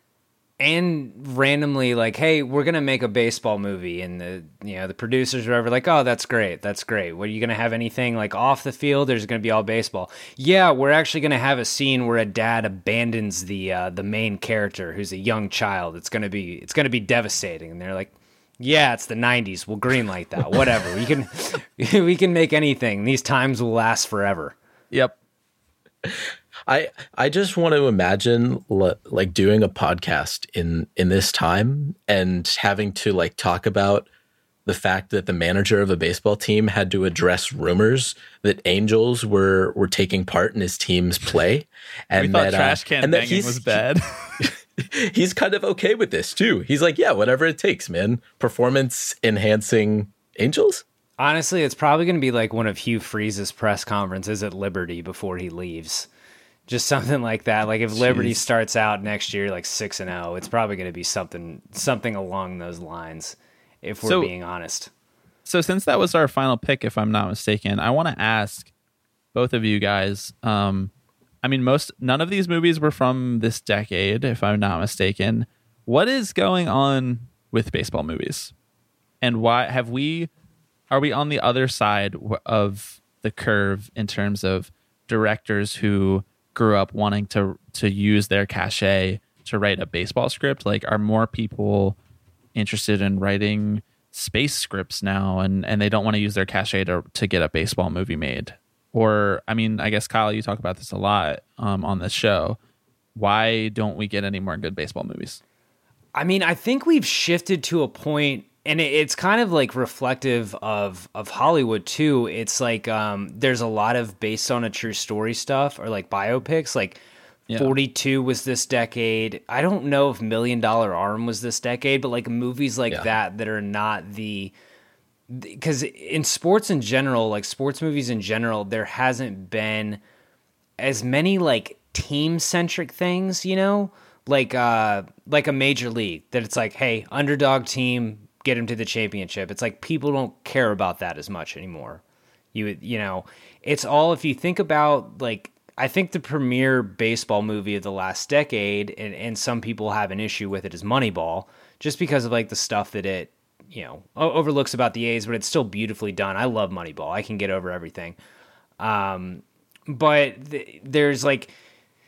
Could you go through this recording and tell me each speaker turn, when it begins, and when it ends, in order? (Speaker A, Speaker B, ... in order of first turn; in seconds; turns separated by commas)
Speaker A: 0.6-24.6, Speaker B: 26.0-34.1, Speaker B: 34.6-43.8, Speaker C: 42.1-44.4, Speaker B: 44.4-50.8, Speaker A: 51.2-56.1, Speaker A: 56.7-64.9, Speaker C: 58.0-58.3, Speaker C: 64.0-64.3, Speaker C: 65.5-68.7, Speaker C: 69.3-70.9, Speaker C: 71.4-78.5, Speaker C: 79.2-80.3, Speaker C: 80.9-92.0, Speaker C: 92.5-102.6, Speaker C: 103.1-105.4, Speaker A: 106.1-117.0, Speaker C: 117.5-117.7, Speaker A: 117.5-124.5, Speaker A: 125.3-130.0, Speaker A: 130.8-142.0, Speaker A: 142.5-158.2, Speaker A: 158.8-161.5